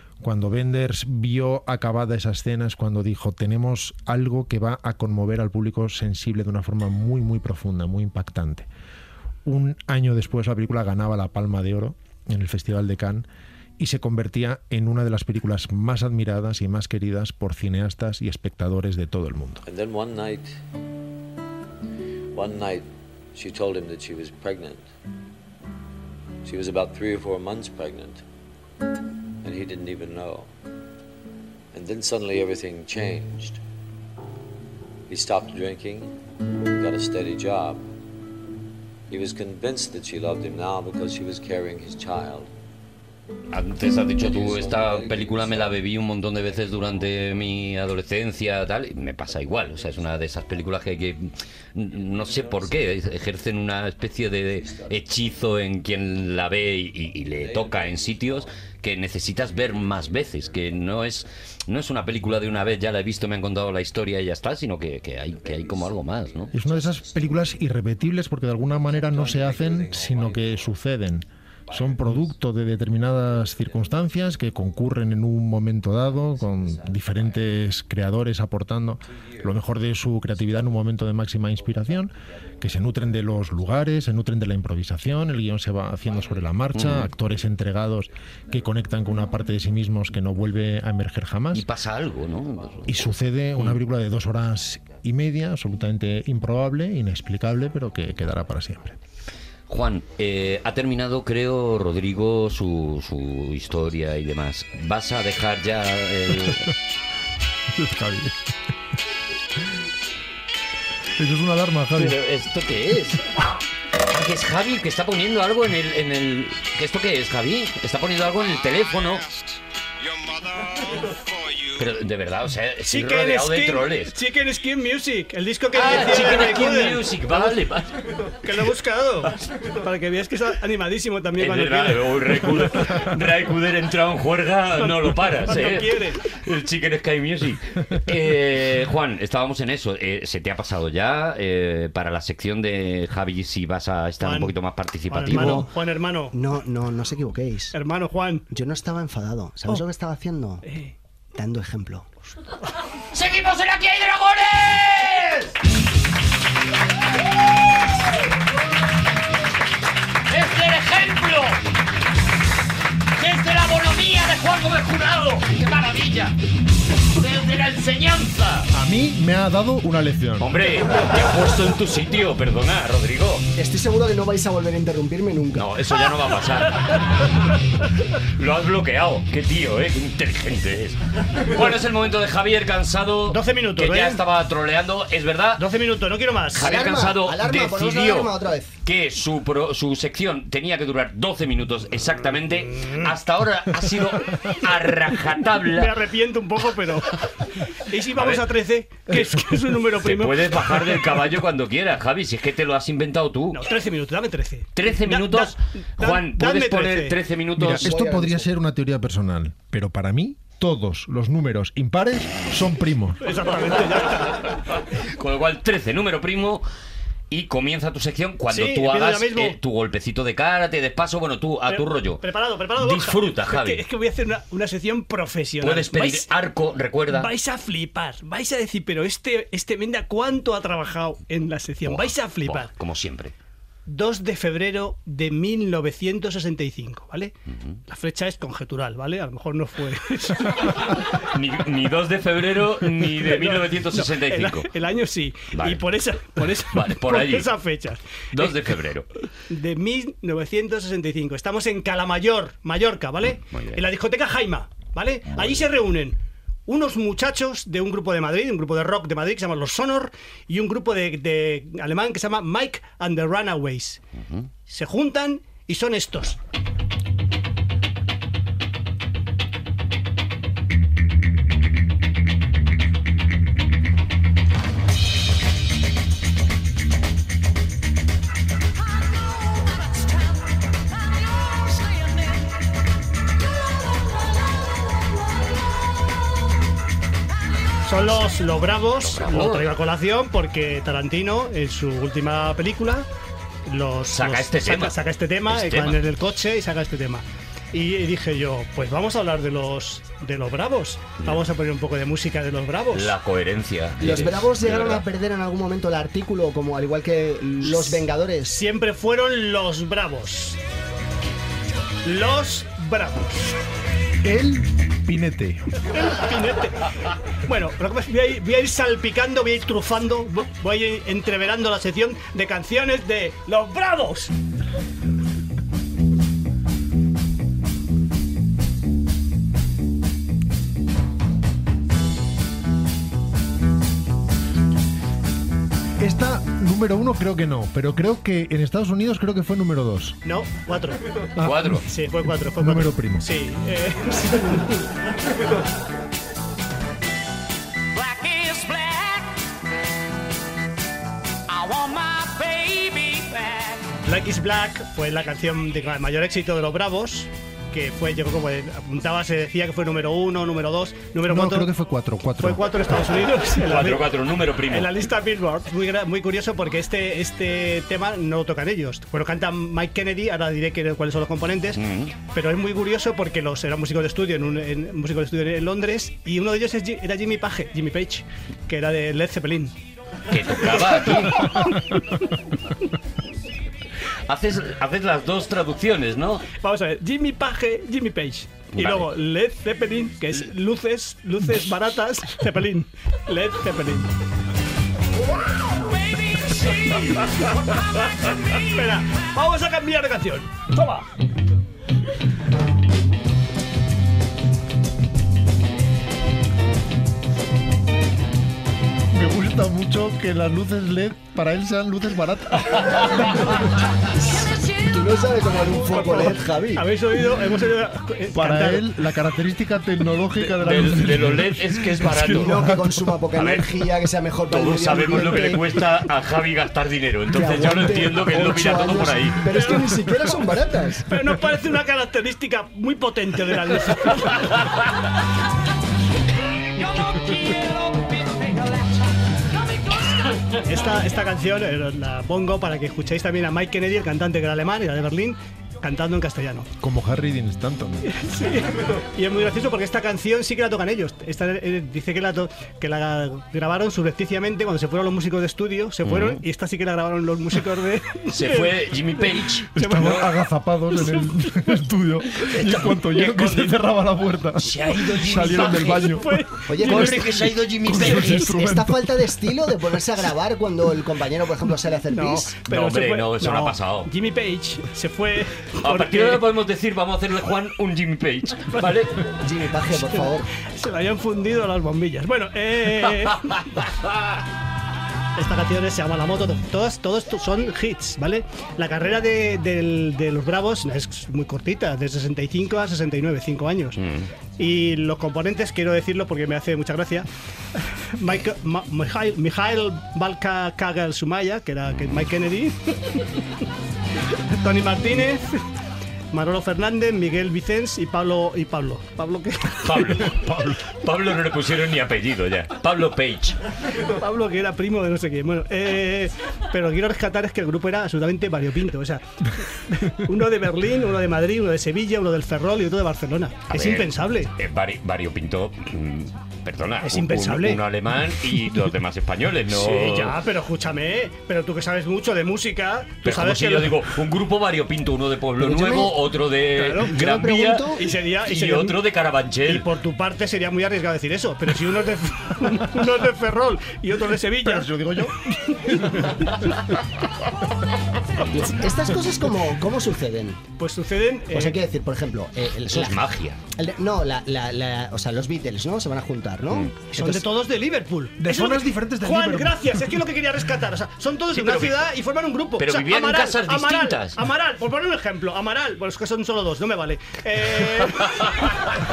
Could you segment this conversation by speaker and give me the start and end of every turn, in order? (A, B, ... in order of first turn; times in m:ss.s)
0:00.2-0:08.7 A
0:09.4-0:13.3 A
0:13.8-0:19.6 A
0:19.6-0:20.6 B
0:22.3-0:24.9 B
0:26.4-0:28.2 B
0:29.4-0:30.5 B
0:31.7-0:33.6 B
0:35.1-0:37.9 B
0:39.1-0:42.5 B
0:43.5-1:06.5 C
0:44.2-0:45.8 B
0:49.7-0:50.1 B
0:52.1-0:52.8 B
0:54.6-0:54.9 B
0:57.4-0:58.5 B
1:05.3-1:07.4 B
1:06.5-1:31.7 A
1:08.8-1:10.6 B
1:11.7-1:12.2 B
1:16.5-1:17.3 B
1:19.2-1:19.5 B
1:26.7-1:27.1 C
1:31.5-1:33.0 C
1:32.9-1:39.0 A
1:39.7-1:46.7 C
1:47.7-1:48.4 A
1:51.2-1:52.2 A
1:51.9-1:53.3 C
1:54.1-1:59.3 C
2:01.7-2:04.1 C
2:02.8-2:07.5 D
2:05.7-2:08.0 C
2:08.4-2:13.1 D
2:11.4-2:25.7 C
2:14.8-2:16.2 D
2:24.2-2:24.5 D
2:25.1-2:26.3 D
2:25.3-2:25.7 E
2:26.3-2:27.8 E
2:27.7-2:28.5 D
2:28.5-2:30.6 E
2:30.6-2:30.9 D
2:31.3-2:32.1 E
2:33.2-2:35.4 C
2:40.3-2:41.5 C
2:43.2-2:46.3 C
2:47.2-2:48.6 C
2:48.7-2:50.5 A
2:50.4-2:53.4 C
2:53.5-2:55.6 E
2:55.5-2:57.0 C
2:58.3-3:05.6 C
3:03.3-3:04.2 D
3:05.6-3:06.7 D
3:06.6-3:08.3 C
3:06.6-3:08.7 E
3:08.8-3:15.9 C
3:15.6-3:21.1 D
3:18.2-3:18.4 C
3:20.0-3:23.6 C
3:23.5-3:27.2 D
3:24.7-3:27.9 C
3:27.6-3:33.2 A
3:27.7-3:28.5 E
3:33.2-3:34.6 D
3:35.0-3:36.6 C
3:37.3-3:42.2 C
3:38.5-3:39.6 D
3:41.7-3:46.3 D
3:42.8-3:43.8 C
3:45.6-3:47.3 C
3:47.1-3:52.7 D
3:51.8-3:53.3 C
3:53.9-3:57.3 D
3:57.9-4:00.9 D
4:01.1-4:04.7 C
4:03.0-4:08.8 D
4:05.5-4:05.8 C
4:06.6-4:07.5 C
4:08.3-4:09.1 C
4:09.5-4:16.2 D
4:13.4-4:13.8 C
4:15.4-4:15.6 C
4:16.7-4:24.0 D
4:24.7-4:26.4 D
4:47.8-4:53.1 D
4:48.9-4:49.7 C
4:53.6-5:03.1 D
4:54.1-4:55.0 C
4:55.5-4:56.0 C
5:02.9-5:05.0 C
5:04.0-5:08.6 E
5:07.6-5:10.6 D
5:12.0-5:13.6 D
5:14.2-5:15.7 A
5:15.8-5:24.3 D
5:36.0-5:40.2 A
5:40.2-5:41.0 D
5:41.4-5:41.8 A
5:41.4-5:41.8 C
5:41.8-5:44.9 D
5:42.6-5:43.3 A
5:48.0-5:49.2 F
5:51.5-5:53.8 F
5:54.0-6:01.7 D
6:01.2-6:02.9 A
6:02.4-6:19.7 D
6:03.6-6:04.9 C
6:11.7-6:12.1 C
6:20.3-6:21.7 C
6:20.6-6:21.7 D
6:24.3-6:26.5 C
6:26.6-6:34.1 D
6:28.7-6:29.1 C
6:35.8-6:37.3 F
6:38.2-6:38.8 F
6:38.5-6:41.0 D
6:49.1-6:53.5 A
6:54.8-6:56.8 E
6:55.8-6:58.9 D
6:58.3-7:03.1 A
7:00.4-7:02.7 C
7:02.2-7:05.9 E
7:03.3-7:03.7 C
7:04.5-7:09.7 C
7:07.3-7:11.1 E
7:09.5-7:10.4 D
7:11.0-7:14.8 D
7:17.0-7:18.7 F
7:20.5-7:26.7 D
7:26.8-7:28.1 A
7:28.1-7:40.3 D
7:36.0-7:36.4 C
7:38.3-7:40.3 C
7:39.7-7:49.4 A
7:40.9-7:41.8 D
7:42.4-7:43.8 C
7:44.6-7:46.2 C
7:46.0-7:47.0 D
7:46.7-7:47.4 E
7:46.8-7:48.6 C
7:48.0-7:52.6 E
7:52.1-7:56.4 D
7:52.7-7:54.1 C
7:55.8-7:59.2 C
7:58.7-7:59.1 D
7:59.4-8:00.5 E
8:00.1-8:03.8 D
8:05.4-8:14.0 D
8:14.0-8:14.3 C
8:14.6-8:17.3 D
8:18.1-8:23.4 D
8:24.5-8:25.6 D
8:26.3-8:30.3 D
8:29.8-8:33.6 C
8:34.1-8:44.5 D
8:43.7-8:50.4 C
8:47.0-8:47.8 D
8:49.7-8:54.1 D
8:53.2-8:59.8 C
8:55.6-8:58.0 E
8:56.8-8:57.2 D
8:57.9-8:59.1 D
8:59.6-9:06.3 D
9:04.6-9:06.4 A
9:08.5-9:10.6 E
9:10.8-9:11.8 D
9:11.5-9:17.4 E
9:12.9-9:13.6 C
9:17.1-9:28.9 D
9:18.4-9:20.1 A
9:21.5-9:22.0 C
9:22.8-9:24.4 C
9:28.2-9:28.9 C